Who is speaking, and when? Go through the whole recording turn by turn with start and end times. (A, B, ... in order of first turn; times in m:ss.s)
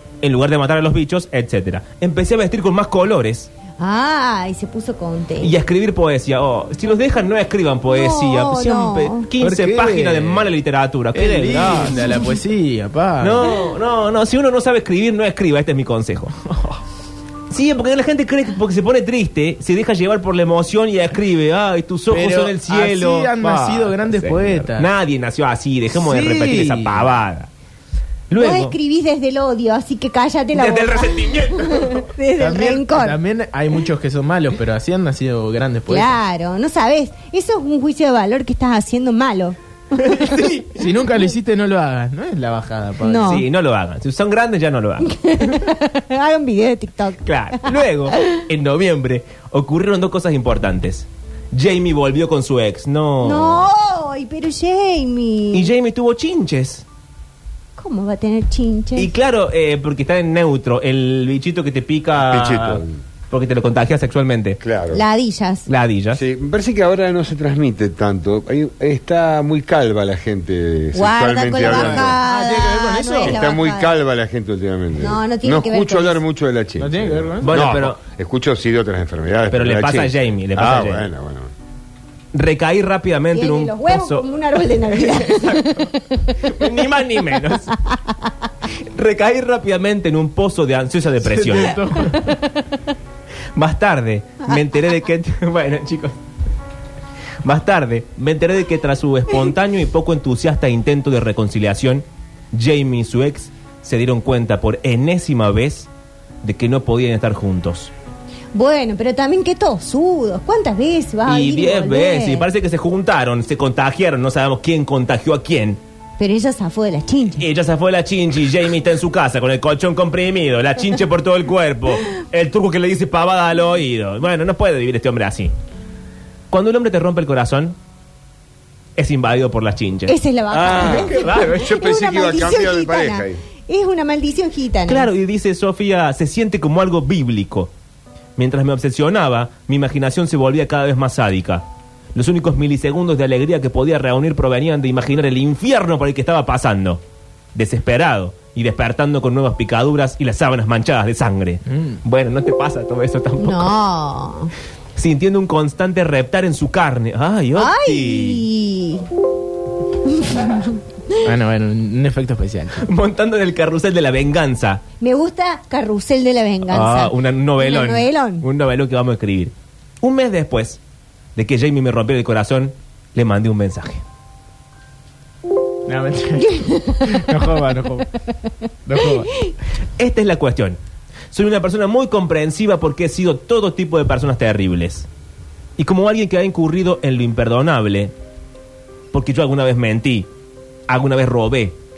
0:00.2-0:03.5 A
0:03.8-0:05.5 B
0:05.4-0:12.1 A
0:07.9-0:09.3 B
0:09.4-0:10.5 C
0:11.1-0:13.6 C
0:13.2-0:16.4 A
0:16.5-0:16.8 C
0:17.5-0:27.5 A
0:22.1-0:24.9 C
0:25.9-0:27.1 C
0:28.3-0:28.7 A
0:28.3-0:33.2 B
0:30.5-0:32.1 A
0:32.4-0:36.2 C
0:35.9-0:40.3 B
0:39.9-0:40.8 A
0:40.8-0:43.3 C
0:43.0-0:43.4 B
0:43.2-0:45.1 A
0:45.0-0:48.4 B
0:47.2-0:53.6 A
0:53.2-0:55.7 B
0:55.5-0:56.8 A
0:57.8-0:59.1 B
0:59.0-1:04.6 A
1:02.2-1:02.9 D
1:04.6-1:05.0 D
1:04.9-1:05.7 B
1:05.7-1:06.2 A
1:06.1-1:12.2 D
1:10.9-1:14.0 B
1:11.6-1:13.4 C
1:13.2-1:21.5 D
1:15.0-1:16.2 B
1:16.8-1:17.7 C
1:17.4-1:18.0 A
1:19.5-1:21.1 A
1:22.3-1:24.2 A
1:23.3-1:26.3 B
1:24.9-1:25.9 A
1:26.4-1:27.8 A
1:28.8-1:32.1 A
1:31.2-1:32.3 C
1:33.5-1:36.1 A
1:37.4-1:45.9 A
1:46.4-1:47.9 A
1:48.5-1:52.5 B
1:51.3-1:55.8 A
1:56.2-1:57.4 B
1:57.4-2:05.5 A
2:06.5-2:07.8 A
2:09.0-2:10.2 A
2:10.1-2:15.1 B
2:10.5-2:13.4 D
2:10.8-2:11.7 A
2:14.9-2:17.7 A
2:18.4-2:27.0 A
2:27.5-2:33.8 A
2:31.7-2:32.0 C
2:33.4-2:34.5 B
2:35.0-2:38.4 A
2:37.6-2:39.1 B
2:40.0-2:41.2 B
2:41.2-2:42.8 C
2:42.8-2:44.8 A
2:45.0-2:48.4 B
2:46.7-2:50.8 A
2:51.4-2:54.0 A
2:55.8-2:58.1 C
2:56.4-2:57.4 B
2:58.8-2:59.3 C
2:59.0-2:59.5 B
3:00.0-3:00.8 A
3:01.3-3:05.1 A
3:05.8-3:08.1 A
3:09.1-3:10.3 A
3:10.9-3:11.8 A